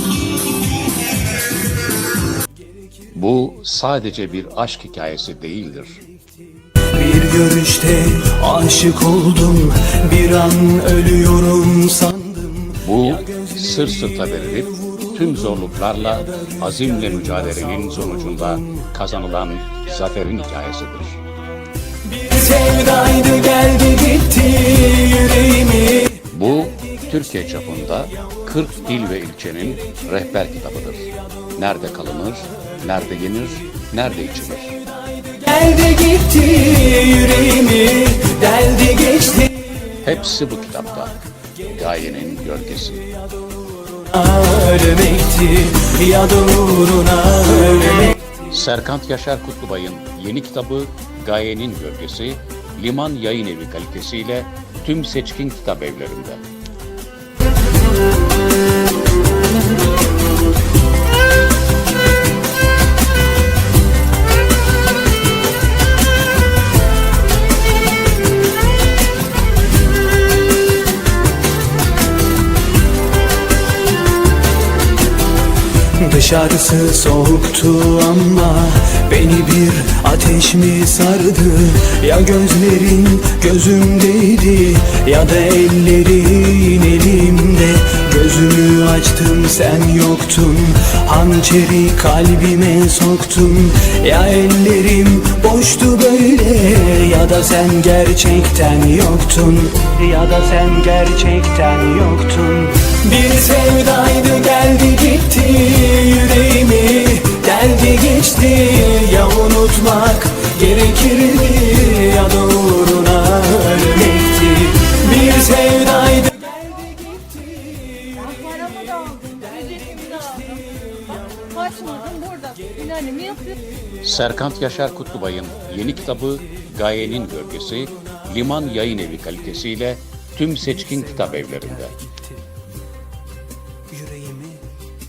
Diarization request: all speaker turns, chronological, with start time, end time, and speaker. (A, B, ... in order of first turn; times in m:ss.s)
0:03.1-0:06.0 A
0:06.8-0:12.8 B
0:12.8-0:21.2 A
0:22.1-0:26.2 B
0:26.2-0:34.8 A
0:35.2-0:39.7 B
0:40.0-0:43.1 A
0:43.7-0:48.2 B
0:48.4-0:56.4 A
1:15.9-1:57.4 B
1:57.9-2:00.4 B
1:58.9-1:59.3 C
2:01.6-2:03.5 C
2:04.0-2:12.0 A
2:13.9-2:14.6 B